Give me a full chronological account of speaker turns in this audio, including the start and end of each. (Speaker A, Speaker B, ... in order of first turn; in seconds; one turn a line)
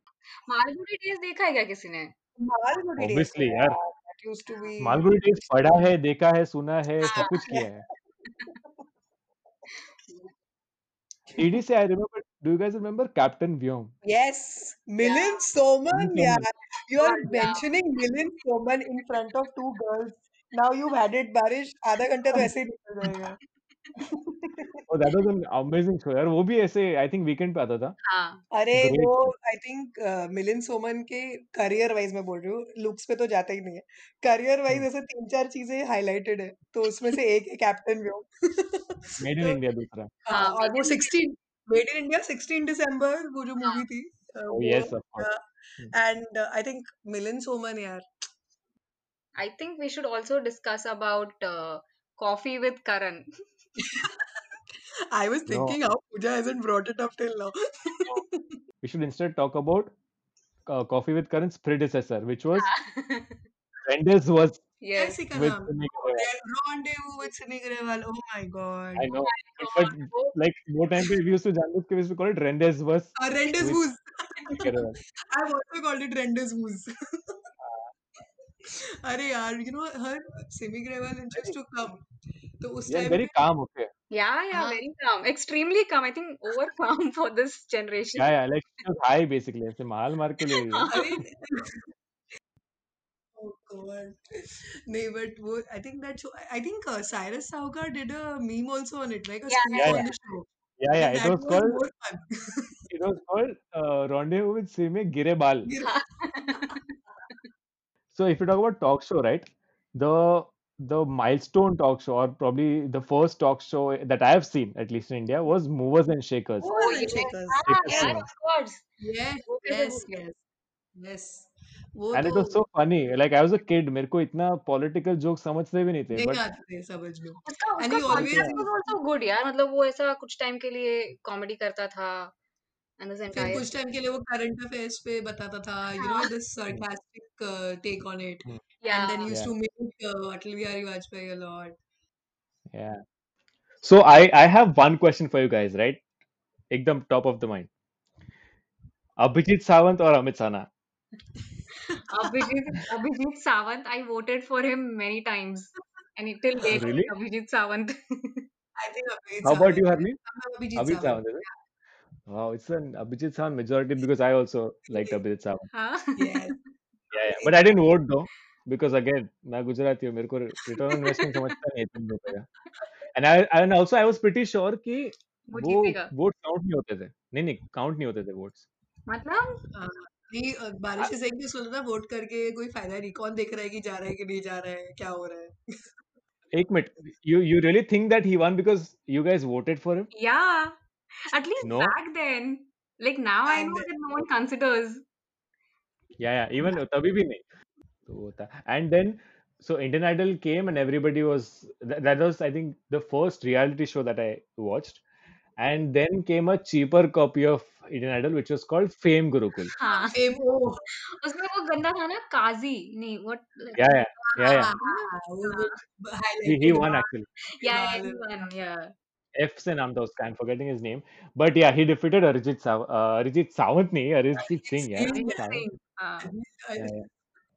Speaker A: 0.5-2.1
Speaker B: 2.4-5.1
Speaker C: 3.0-3.8
Speaker C: 4.8-7.8
Speaker A: 7.0-7.5
Speaker B: 7.1-7.7
Speaker A: 8.3-8.6
Speaker A: 10.0-10.3
Speaker C: 11.4-13.9
Speaker B: 14.0-23.4
Speaker A: 15.0-15.4
Speaker C: 15.9-16.5
Speaker A: 17.0-17.7
Speaker B: 24.0-24.9
Speaker C: 24.9-28.0
Speaker A: 28.1-28.4
Speaker B: 28.5-39.6
Speaker C: 28.7-29.3
Speaker C: 39.2-40.1
Speaker B: 40.2-48.0
Speaker A: 40.3-41.1
Speaker C: 44.5-45.9
Speaker A: 49.4-53.3
Speaker B: 53.8-54.2
Speaker B: 55.1-58.6
Speaker C: 55.5-55.8
Speaker C: 58.8-59.9
Speaker C: 60.7-62.7
Speaker A: 62.5-63.4
Speaker C: 63.9-64.6
Speaker A: 64.8-65.2
Speaker B: 65.0-69.1
Speaker C: 65.3-66.3
Speaker C: 69.0-73.8
Speaker A: 69.1-70.4
Speaker B: 73.2-77.4
Speaker C: 74.5-75.0
Speaker C: 77.6-77.9
Speaker B: 78.6-82.0
Speaker B: 82.6-83.3
Speaker C: 82.9-83.9
Speaker A: 84.1-88.3
Speaker B: 84.5-84.8
Speaker C: 88.2-91.0
Speaker A: 90.5-91.2
Speaker B: 90.9-91.9
Speaker B: 93.4-102.9
Speaker A: 99.5-100.2
Speaker C: 99.8-100.1
Speaker C: 100.8-101.8
Speaker C: 102.9-105.7
Speaker B: 105.7-106.0
Speaker A: 105.8-106.8
Speaker C: 108.1-116.7
Speaker A: 116.6-118.8
Speaker B: 116.7-118.2
Speaker C: 117.7-118.3
Speaker B: 119.0-120.4
Speaker A: 119.5-120.2
Speaker B: 121.0-122.6
Speaker C: 122.1-126.4
Speaker B: 126.1-129.0
Speaker A: 127.5-132.3
Speaker C: 128.1-128.6
Speaker A: 133.0-133.7
Speaker B: 133.3-141.8
Speaker A: 136.0-136.3
Speaker A: 138.8-139.3
Speaker C: 142.7-143.0
Speaker C: 143.8-146.0
Speaker C: 146.7-147.7
Speaker C: 149.2-150.7
Speaker A: 151.9-158.4
Speaker B: 151.9-152.4
Speaker C: 156.7-157.1
Speaker B: 158.8-161.6
Speaker C: 159.4-160.2
Speaker C: 160.8-161.4
Speaker C: 162.3-165.7
Speaker A: 165.7-166.5
Speaker B: 166.2-166.6
Speaker B: 167.1-167.8
Speaker C: 167.1-172.5
Speaker A: 170.9-171.3
Speaker C: 173.1-178.7
Speaker A: 175.5-176.1
Speaker A: 179.1-179.6
Speaker B: 179.7-185.6
Speaker C: 186.5-190.1
Speaker A: 190.1-195.0
Speaker C: 191.6-191.9
Speaker B: 193.5-193.9
Speaker C: 196.2-197.4
Speaker C: 198.1-205.0
Speaker C: 205.6-209.7
Speaker A: 209.8-210.2
Speaker B: 209.8-210.8
Speaker A: 210.9-215.7
Speaker C: 213.8-214.7
Speaker B: 214.3-217.1
Speaker C: 216.5-217.3
Speaker A: 217.5-218.9
Speaker B: 217.6-218.3
Speaker C: 219.4-225.7
Speaker B: 224.6-225.5
Speaker A: 225.0-226.3
Speaker B: 226.2-226.9
Speaker C: 226.8-227.1